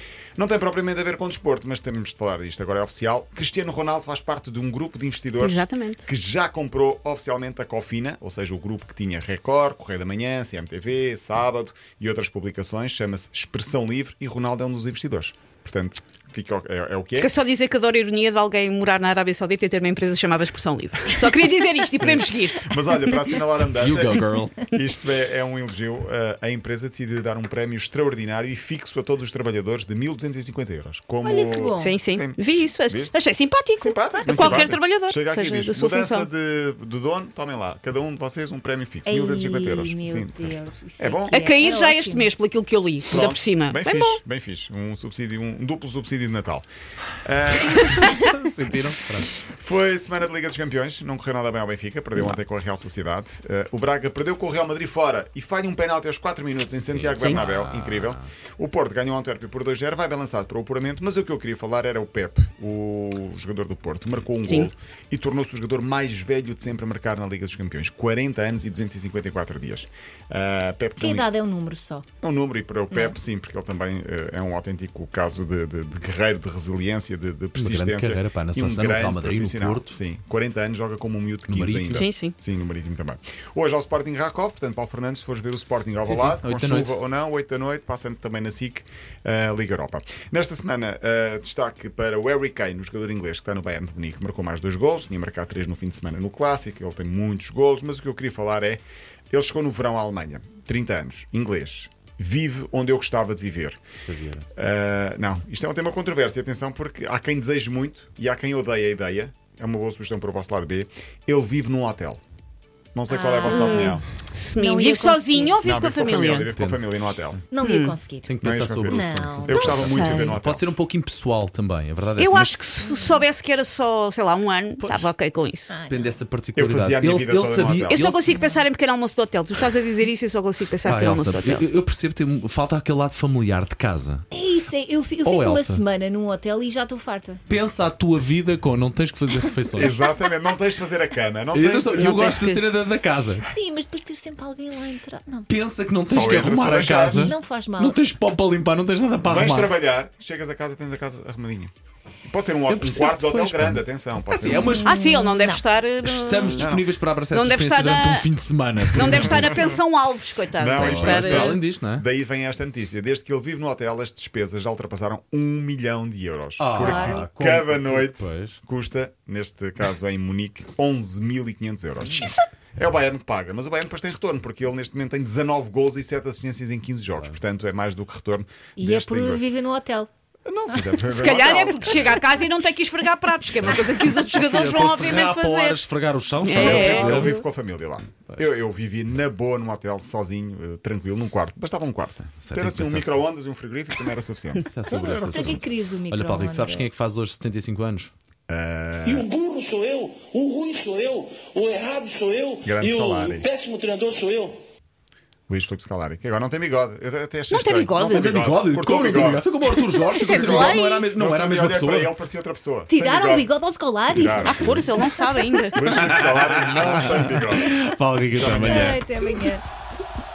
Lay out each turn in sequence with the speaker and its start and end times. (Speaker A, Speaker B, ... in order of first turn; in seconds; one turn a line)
Speaker A: 0.4-17.3
Speaker B: 5.4-6.1
Speaker B: 17.2-23.2
Speaker A: 21.9-33.2
Speaker C: 23.8-24.6
Speaker D: 31.2-32.0
Speaker B: 31.8-36.3
Speaker A: 33.8-41.4
Speaker D: 34.1-34.7
Speaker D: 39.0-42.3
Speaker B: 41.3-44.2
Speaker A: 43.1-46.6
Speaker A: 47.2-48.2
Speaker C: 48.0-49.4
Speaker A: 49.4-71.3
Speaker C: 56.7-58.3
Speaker B: 57.2-57.4
Speaker D: 71.0-72.1
Speaker A: 72.2-103.8
Speaker C: 77.6-80.0
Speaker C: 81.5-82.1
Speaker B: 81.9-82.3
Speaker C: 86.0-87.0
Speaker C: 104.1-104.5
Speaker A: 104.5-112.2
Speaker A: 112.9-114.0
Speaker D: 113.1-114.0
Speaker B: 113.4-116.5
Speaker D: 114.6-115.6
Speaker A: 115.6-117.4
Speaker C: 116.2-116.9
Speaker D: 117.5-118.3
Speaker B: 117.6-118.0
Speaker C: 118.2-122.6
Speaker A: 118.4-120.7
Speaker D: 118.9-120.0
Speaker B: 119.5-120.3
Speaker B: 122.2-125.7
Speaker D: 122.8-123.3
Speaker C: 124.8-125.1
Speaker D: 125.7-126.2
Speaker C: 125.9-128.4
Speaker A: 126.5-128.1
Speaker B: 127.8-131.7
Speaker D: 128.2-128.7
Speaker C: 130.8-134.3
Speaker D: 134.3-137.4
Speaker C: 135.2-135.8
Speaker C: 137.5-140.0
Speaker A: 139.7-142.4
Speaker C: 141.5-143.5
Speaker B: 141.9-142.6
Speaker D: 143.4-145.5
Speaker C: 145.5-149.8
Speaker A: 146.1-147.3
Speaker D: 147.1-148.0
Speaker A: 149.2-151.7
Speaker A: 152.3-154.8
Speaker C: 152.7-155.0
Speaker D: 154.6-155.6
Speaker B: 154.8-156.8
Speaker C: 156.0-159.7
Speaker A: 156.6-156.9
Speaker B: 157.3-158.3
Speaker B: 158.9-161.6
Speaker A: 159.0-159.8
Speaker A: 160.6-179.4
Speaker C: 160.7-162.1
Speaker C: 166.6-168.6
Speaker D: 166.7-167.2
Speaker D: 178.8-180.1
Speaker A: 180.4-182.2
Speaker B: 181.1-185.8
Speaker C: 183.6-187.3
Speaker B: 186.4-187.4
Speaker A: 186.5-194.7
Speaker D: 186.6-187.3
Speaker C: 192.3-193.2
Speaker C: 194.6-198.1
Speaker D: 194.9-196.9
Speaker A: 195.3-195.6
Speaker A: 198.5-199.3
Speaker E: 199.1-204.6
Speaker A: 202.6-203.5
Speaker A: 205.5-209.5
Speaker B: 207.5-208.4
Speaker C: 208.1-212.1
Speaker B: 210.0-211.1
Speaker D: 210.1-210.8
Speaker A: 210.4-213.5
Speaker D: 212.9-215.1
Speaker A: 214.1-214.8
Speaker B: 214.4-215.8
Speaker A: 215.7-217.8
Speaker C: 215.9-219.1
Speaker A: 218.3-219.0
Speaker D: 218.5-219.6